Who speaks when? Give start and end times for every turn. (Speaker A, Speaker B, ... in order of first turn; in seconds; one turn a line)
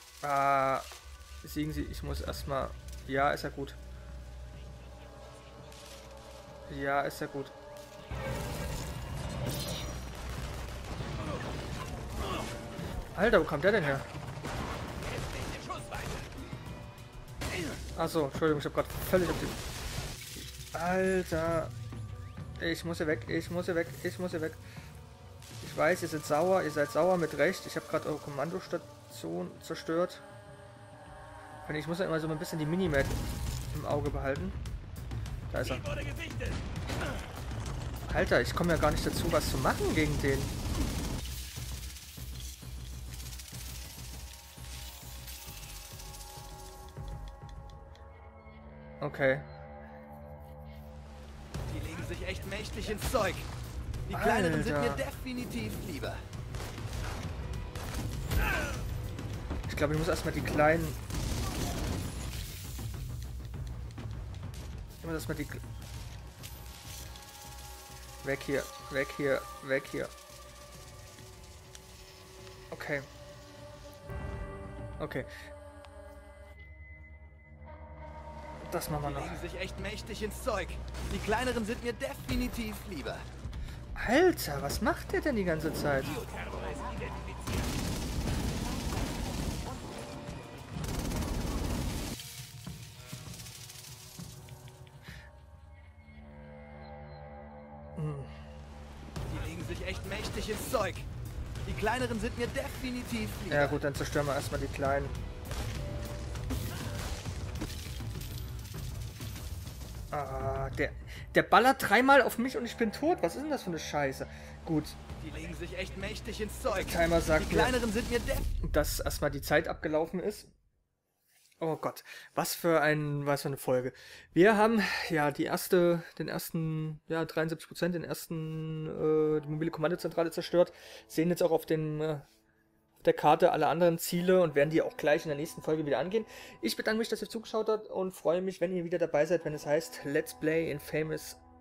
Speaker A: 0.2-0.9
Speaker A: 1.4-3.8
Speaker A: 6.7-7.5
Speaker A: 13.1-14.1
Speaker A: 17.9-19.6
Speaker A: 20.7-21.7
Speaker A: 22.6-24.6
Speaker A: 25.6-30.2
Speaker A: 31.6-33.2
Speaker A: 33.7-34.6
Speaker A: 35.5-36.0
Speaker A: 38.1-40.5
Speaker A: 49.0-49.5
Speaker B: 51.7-53.5
Speaker B: 54.1-56.2
Speaker A: 54.1-55.1
Speaker A: 59.7-61.0
Speaker A: 65.0-65.6
Speaker A: 68.2-70.1
Speaker A: 72.7-73.1
Speaker A: 75.0-75.3
Speaker A: 78.6-79.5
Speaker B: 79.0-83.3
Speaker A: 84.0-86.3
Speaker B: 86.3-87.6
Speaker A: 98.0-98.3
Speaker B: 99.3-101.1
Speaker B: 101.7-103.8
Speaker A: 103.5-105.2
Speaker A: 110.1-115.0
Speaker B: 115.2-118.5
Speaker A: 116.7-117.8
Speaker A: 118.6-120.5
Speaker A: 121.6-132.2
Speaker A: 133.0-141.4